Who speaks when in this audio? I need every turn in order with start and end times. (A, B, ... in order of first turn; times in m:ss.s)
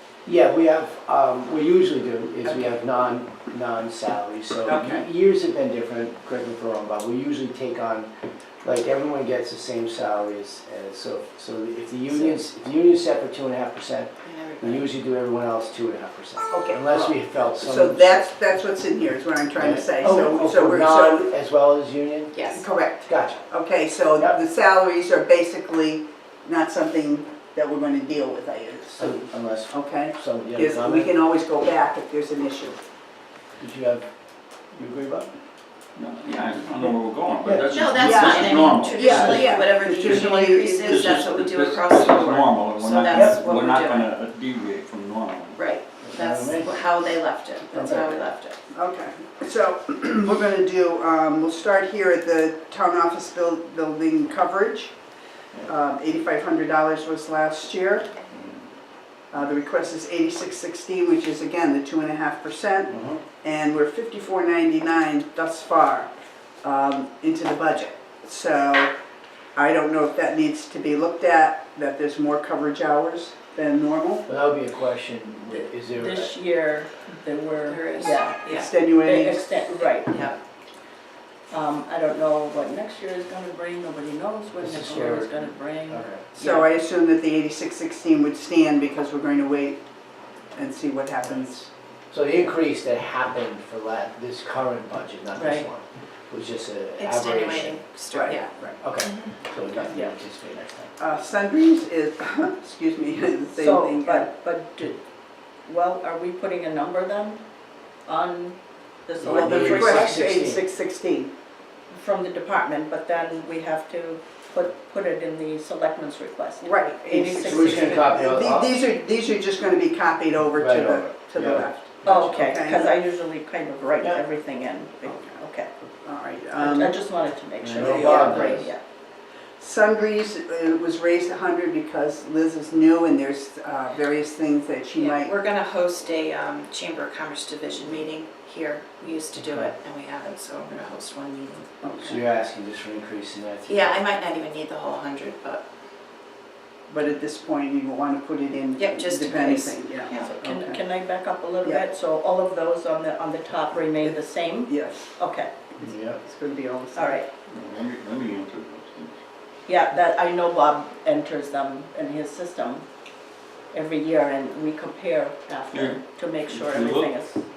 0:00.2-0:08.1 A
0:02.4-0:02.7 B
0:04.6-0:05.0 B
0:08.6-0:18.3 A
0:14.2-0:14.9 C
0:16.5-0:21.3 B
0:19.6-0:23.4 A
0:22.3-0:22.6 C
0:22.5-0:32.8 B
0:29.0-0:31.1 A
0:33.6-0:34.0 A
0:34.7-0:35.3 A
0:36.0-0:45.6 D
0:37.4-0:38.4 A
0:37.7-0:44.1 C
0:38.0-0:41.2 B
0:39.0-0:39.4 A
0:43.1-0:43.4 A
0:45.6-0:48.6 C
0:46.0-0:46.8 A
0:47.7-0:48.2 A
0:48.7-0:54.9 B
0:55.6-0:58.2 B
0:59.3-1:06.1 B
1:02.9-1:03.2 A
1:06.6-1:08.9 B
1:09.5-1:14.2 B
1:14.3-1:16.3 A
1:15.9-1:18.4 E
1:17.6-1:18.7 C
1:18.4-1:19.6 B
1:19.0-1:20.3 E
1:19.8-1:20.4 C
1:21.5-1:26.7 E
1:24.6-1:26.3 A
1:26.3-1:29.8 B
1:30.5-1:31.7 B
1:32.1-1:37.8 A
1:35.4-1:35.7 E
1:37.0-1:38.5 C
1:38.1-1:38.8 B
1:38.8-1:41.0 A
1:39.0-1:39.3 C
1:41.0-1:44.3 B
1:43.6-1:45.0 E
1:45.6-1:47.4 E
1:48.0-1:50.2 E
1:49.2-1:50.6 A
1:49.2-1:51.3 B
1:51.9-1:58.2 E
1:56.6-2:02.9 B
1:57.3-1:58.7 A
2:00.5-2:02.3 A
2:02.0-2:05.7 E
2:06.0-2:07.0 B
2:06.5-2:08.8 E
2:07.6-2:08.7 A
2:07.8-2:08.7 B
2:09.6-2:15.4 B
2:14.9-2:22.2 C
2:19.4-2:19.7 A
2:22.0-2:24.0 A
2:23.6-2:25.6 C
2:26.9-2:30.8 B
2:28.8-2:30.3 C
2:30.2-2:35.5 E
2:34.0-2:35.1 B
2:35.8-2:36.2 A
2:35.8-2:37.2 B
2:36.9-2:37.3 E
2:37.5-2:39.2 D
2:39.7-2:42.8 E
2:43.7-2:47.4 E
2:45.7-2:47.1 D